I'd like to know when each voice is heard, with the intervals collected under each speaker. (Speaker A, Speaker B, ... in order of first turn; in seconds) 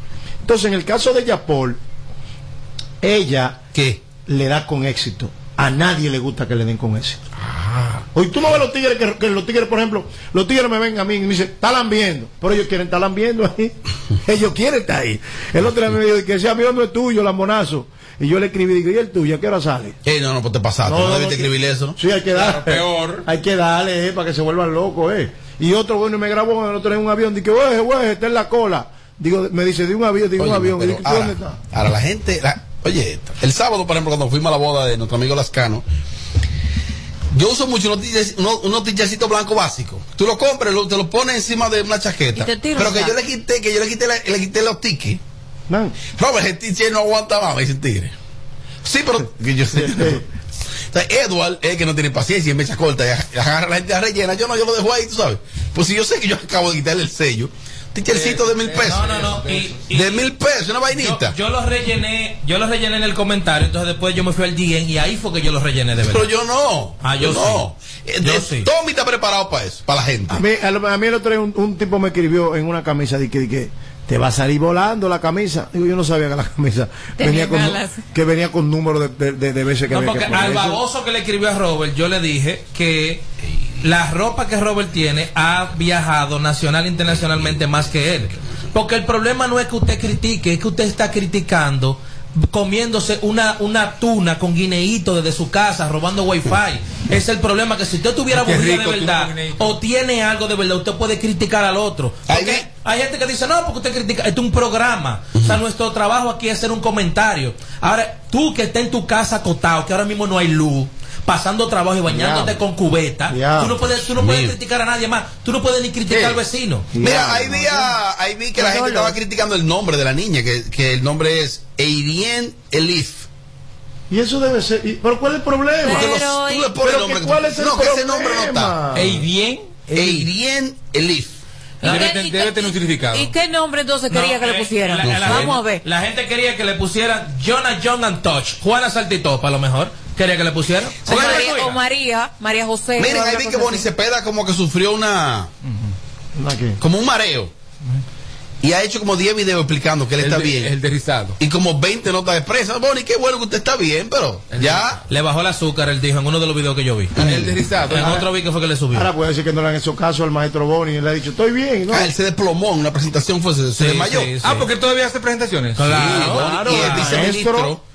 Speaker A: 0.4-1.8, 3.0-3.6, 4.2-7.2, 8.2-20.0, 20.8-31.6, 45.7-46.0, 49.7-50.2, 70.3-80.8, 112.1-112.6, 113.3-113.8, 116.9-118.0, 124.1-126.2, 126.8-129.2, 146.4-146.8, 158.9-162.1, 166.2-167.8
Speaker B: 3.7-4.0, 7.5-8.0, 20.1-22.0, 30.4-35.8, 37.3-45.2, 46.1-48.1, 48.8-50.2, 50.9-59.1, 59.9-61.4, 66.0-70.4, 102.3-102.7, 105.3-105.6, 114.1-114.6, 117.0-123.3, 125.9-128.8, 129.9-131.4, 135.0-135.5, 141.1-141.4, 143.0-145.5, 146.8-147.5, 148.6-150.7, 151.4-155.0, 157.2-157.5, 161.9-164.4, 165.9-167.8
Speaker C: 22.3-23.2, 58.1-59.8, 98.3-99.8, 116.1-116.5, 128.9-129.9, 131.8-133.3, 145.7-145.9, 150.2-151.4, 154.5-155.0, 157.2-158.3, 164.4-166.3
Speaker D: 42.4-43.2, 77.2-78.0, 118.6-119.2, 125.8-126.8, 131.8-135.8, 141.1-143.9
Speaker E: 58.8-60.3, 60.9-66.3, 67.0-67.7, 68.2-68.7, 79.9-83.2, 83.8-116.9, 129.9-130.2, 131.8-132.1, 134.1-141.8, 155.1-159.1, 163.8-164.7, 165.8-167.5